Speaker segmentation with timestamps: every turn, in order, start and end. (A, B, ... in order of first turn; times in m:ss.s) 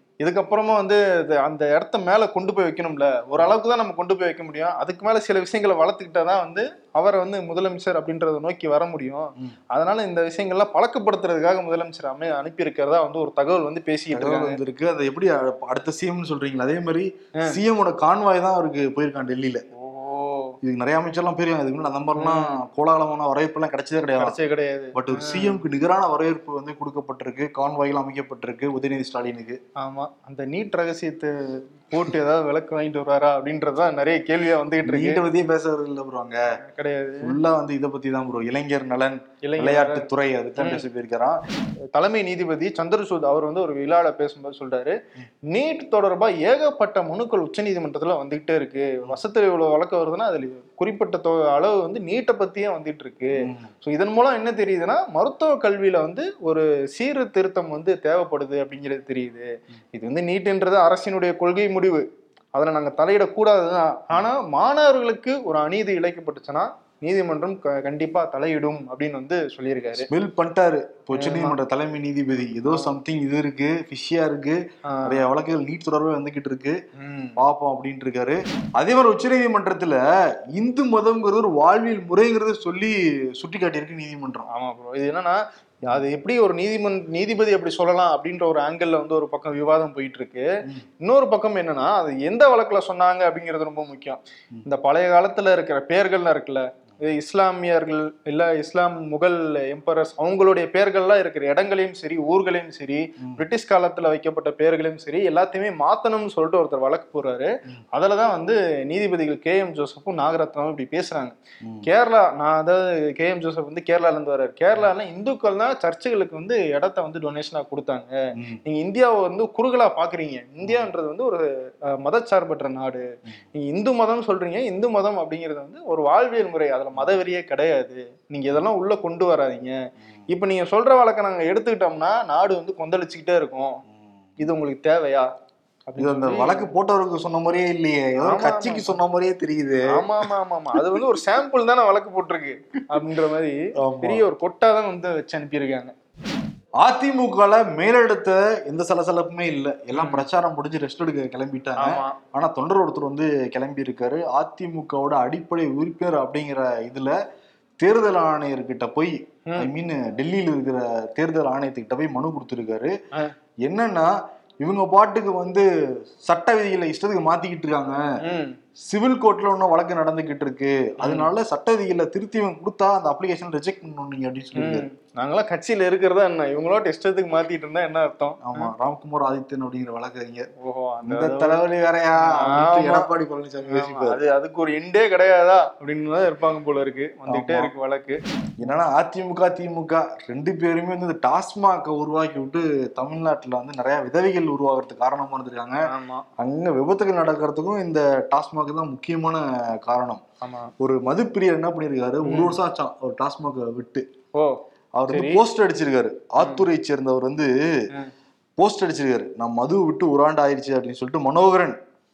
0:00.2-0:14.6 A
0:14.1-0:19.6 B
0:19.8-0:20.6 A
0:20.6-0:24.4 B
0:22.2-0:22.6 A
0:24.2-0:25.6 A
0:24.9-0:29.6 B
0:29.8-0:35.2 A
0:34.8-0:36.4 B
0:36.6-0:37.4 A
0:37.2-0:41.4 B
0:39.4-0:40.1 A
0:40.6-0:40.9 A
0:41.9-0:45.0 A
0:45.5-1:10.1 A
0:53.4-0:53.7 B
1:10.0-1:16.8 B
1:11.1-1:11.6 A
1:12.6-1:12.9 A
1:14.9-1:15.2 A
1:17.0-1:17.4 A
1:17.4-1:20.0 B
1:20.5-1:24.5 B
1:24.5-1:30.5 A
1:31.0-2:09.8 A
2:00.6-2:00.9 B
2:10.3-2:13.8 A
2:14.4-2:15.3 A
2:15.9-2:16.7 A
2:16.0-2:20.0 B
2:18.2-2:19.0 A
2:19.9-2:25.9 A
2:23.8-2:24.2 B
2:26.8-2:37.2 B
2:29.9-2:30.2 A
2:31.8-2:32.2 A
2:37.8-2:42.9 B
2:43.6-2:45.6 B
2:46.2-2:48.0 B
2:48.2-2:48.6 A
2:48.8-2:54.9 B
2:51.0-2:51.3 A
2:54.6-2:58.7 A
2:58.4-3:00.5 B
3:00.6-3:01.6 A
3:01.0-3:04.2 B
3:02.3-3:03.0 A
3:03.7-3:08.2 A
3:07.3-3:07.7 B
3:08.6-3:15.8 B
3:15.9-3:16.2 A
3:16.4-3:20.2 B
3:20.4-3:20.7 A
3:20.8-3:24.0 B
3:22.3-3:22.5 A
3:25.0-3:27.5 B
3:25.1-3:25.4 A
3:26.4-3:26.6 A
3:28.6-3:31.8 B